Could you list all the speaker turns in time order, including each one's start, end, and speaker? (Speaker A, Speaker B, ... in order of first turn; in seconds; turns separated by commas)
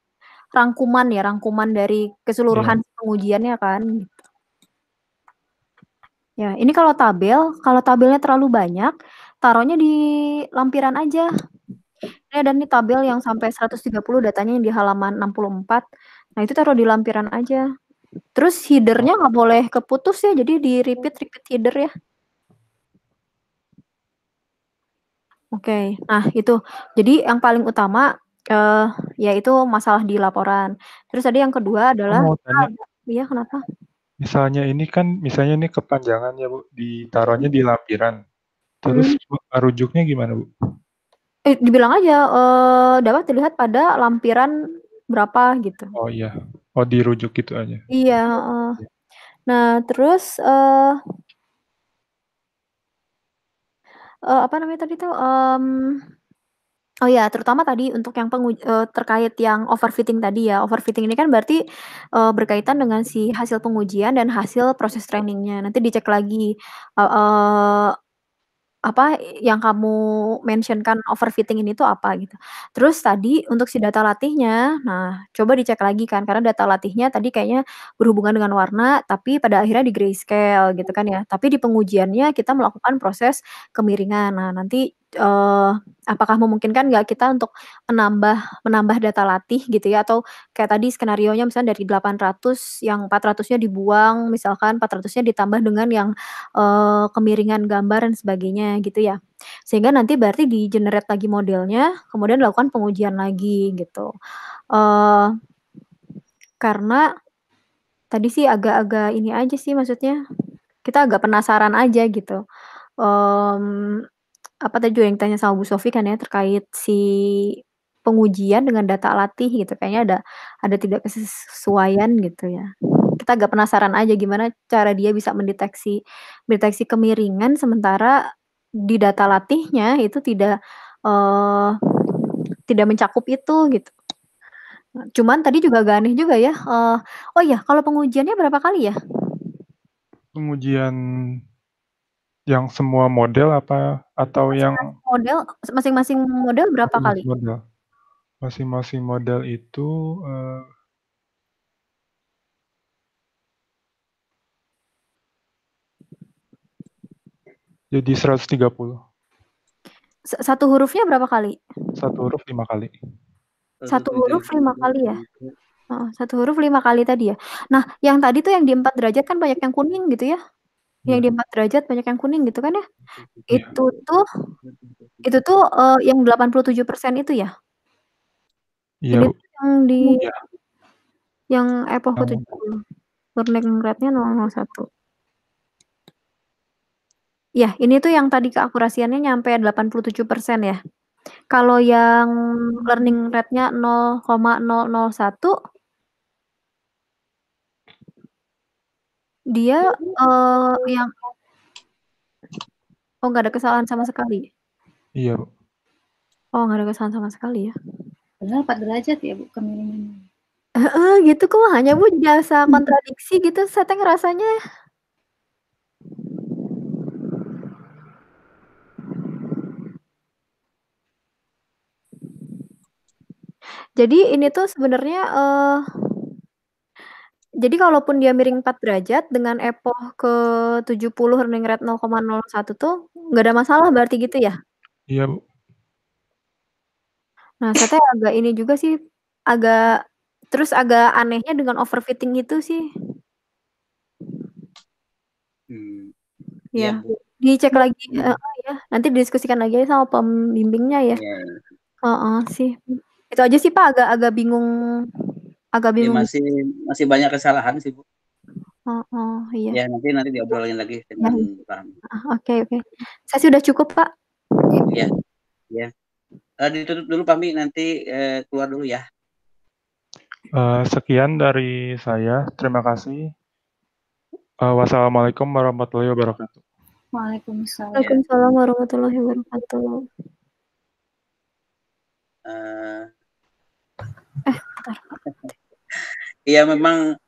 Speaker A: 0.6-4.1, Speaker B: 2.5-2.8, Speaker A: 6.4-9.9, Speaker A: 10.6-11.2, Speaker A: 12.3-15.8, Speaker A: 16.4-17.6, Speaker A: 18.4-21.9, Speaker A: 25.5-33.6, Speaker B: 32.1-32.7, Speaker B: 34.2-38.2, Speaker B: 38.9-40.5, Speaker A: 38.9-39.2, Speaker A: 41.5-44.5, Speaker A: 45.1-45.9, Speaker B: 46.0-47.8, Speaker A: 47.9-48.8, Speaker A: 49.5-51.0, Speaker A: 54.3-56.0, Speaker A: 57.0-61.6, Speaker A: 62.2-66.5, Speaker A: 67.0-67.9, Speaker A: 68.9-104.1, Speaker A: 104.7-105.3, Speaker A: 106.6-107.0, Speaker A: 108.1-110.2, Speaker A: 110.8-112.4, Speaker A: 113.0-114.0, Speaker A: 114.7-117.5, Speaker A: 118.0-122.7, Speaker A: 123.2-126.0, Speaker A: 126.5-128.1, Speaker A: 128.9-130.5, Speaker A: 131.1-131.7, Speaker A: 132.7-133.9, Speaker A: 135.2-138.9, Speaker B: 140.3-140.9, Speaker B: 142.5-144.9, Speaker A: 144.6-147.2, Speaker B: 146.8-147.6, Speaker B: 148.4-150.6, Speaker B: 157.9-159.0, Speaker A: 160.3-161.6, Speaker B: 162.0-162.9, Speaker C: 163.8-165.5, Speaker A: 163.9-165.2, Speaker A: 165.9-170.4, Speaker A: 171.1-172.8, Speaker C: 173.1-173.4, Speaker A: 173.5-174.2, Speaker C: 174.6-175.2, Speaker A: 175.2-177.5, Speaker B: 179.1-179.3, Speaker A: 179.1-180.2, Speaker A: 181.5-182.8, Speaker B: 182.2-182.6, Speaker A: 183.4-184.8, Speaker A: 187.6-190.8, Speaker A: 191.5-195.5, Speaker A: 199.5-201.1, Speaker A: 203.2-204.5, Speaker B: 205.2-205.4, Speaker A: 206.6-207.7, Speaker D: 208.4-210.2, Speaker A: 210.8-214.5, Speaker A: 224.0-225.8, Speaker A: 227.6-230.3, Speaker A: 230.8-234.5, Speaker B: 235.1-235.4, Speaker A: 237.6-238.9, Speaker A: 239.5-239.9, Speaker A: 240.5-242.8, Speaker C: 245.7-246.1, Speaker A: 246.8-251.2, Speaker C: 246.8-247.0, Speaker C: 251.1-251.6, Speaker A: 252.1-255.0, Speaker A: 255.8-256.3, Speaker C: 256.0-258.0, Speaker A: 258.9-259.8, Speaker C: 259.7-261.9, Speaker A: 261.2-261.5, Speaker A: 262.2-264.1, Speaker C: 266.6-269.0, Speaker B: 270.6-273.3, Speaker B: 274.6-276.6, Speaker D: 277.1-278.0, Speaker A: 277.9-279.9, Speaker C: 278.0-278.2, Speaker C: 282.5-283.1, Speaker A: 284.4-285.1, Speaker C: 286.5-287.0